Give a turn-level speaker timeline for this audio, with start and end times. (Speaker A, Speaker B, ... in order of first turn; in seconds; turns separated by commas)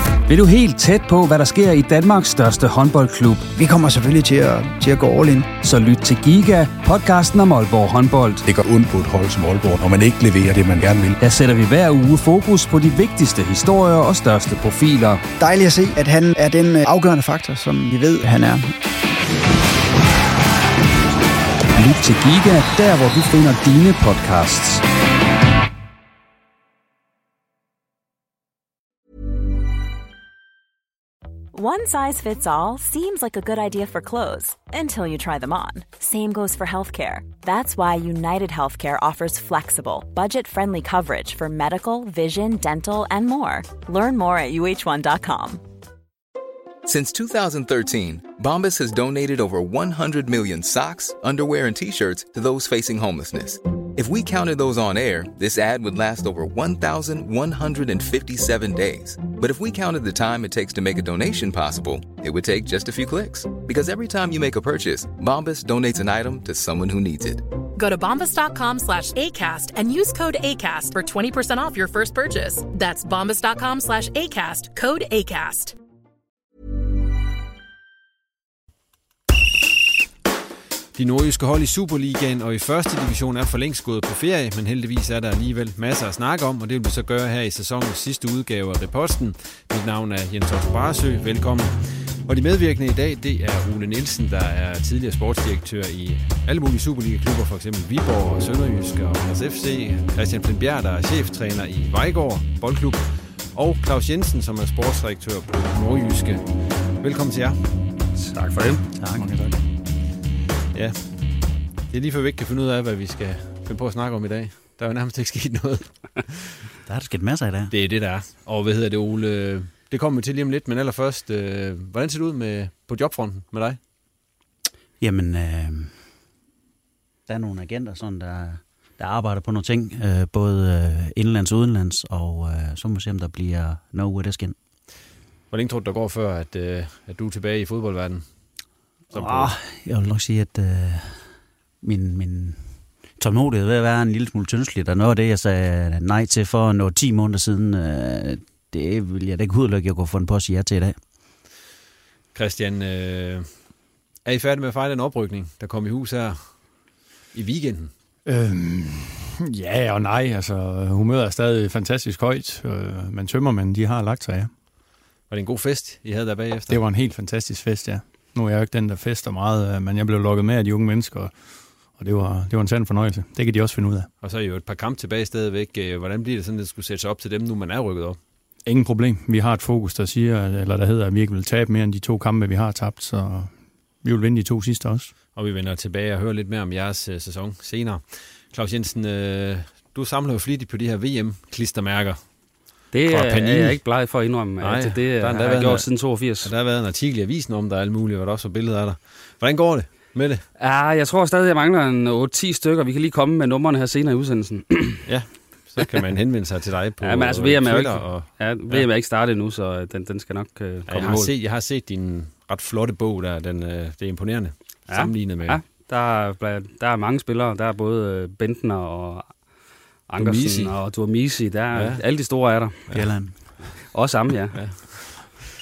Speaker A: 0.3-3.5, Speaker B: 3.5-5.5, Speaker A: 5.5-8.4, Speaker C: 8.4-11.2, Speaker A: 11.2-15.2, Speaker B: 15.4-18.7, Speaker A: 21.7-24.8, Speaker D: 31.5-45.6, Speaker E: 46.8-67.5, Speaker F: 67.8-75.7, Speaker G: 80.9-106.5, Speaker G: 107.0-107.6, Speaker H: 108.2-108.7, Speaker I: 109.0-109.2, Speaker J: 109.1-109.5, Speaker G: 111.9-116.6, Speaker I: 116.8-117.7, Speaker G: 117.7-123.8, Speaker I: 125.0-125.9, Speaker I: 127.3-134.6, Speaker G: 135.5-138.2, Speaker G: 139.1-139.5, Speaker I: 139.1-141.2, Speaker I: 141.8-142.6, Speaker I: 143.2-151.0, Speaker G: 152.3-153.5, Speaker G: 154.2-156.6, Speaker G: 157.3-157.9, Speaker J: 158.2-164.5, Speaker G: 165.3-166.8, Speaker J: 166.7-171.3, Speaker J: 171.9-174.1, Speaker G: 174.2-178.2, Speaker J: 178.7-183.5, Speaker J: 184.0-185.1, Speaker G: 185.3-192.2, Speaker H: 192.9-196.5, Speaker G: 193.1-193.8, Speaker G: 194.6-200.4, Speaker H: 200.6-205.1, Speaker G: 205.1-208.9, Speaker H: 207.0-211.3, Speaker G: 210.9-215.6, Speaker H: 214.9-219.3, Speaker H: 220.1-222.8, Speaker G: 220.2-220.7, Speaker G: 221.7-222.0, Speaker I: 222.9-223.4, Speaker H: 223.9-224.6, Speaker G: 224.5-225.4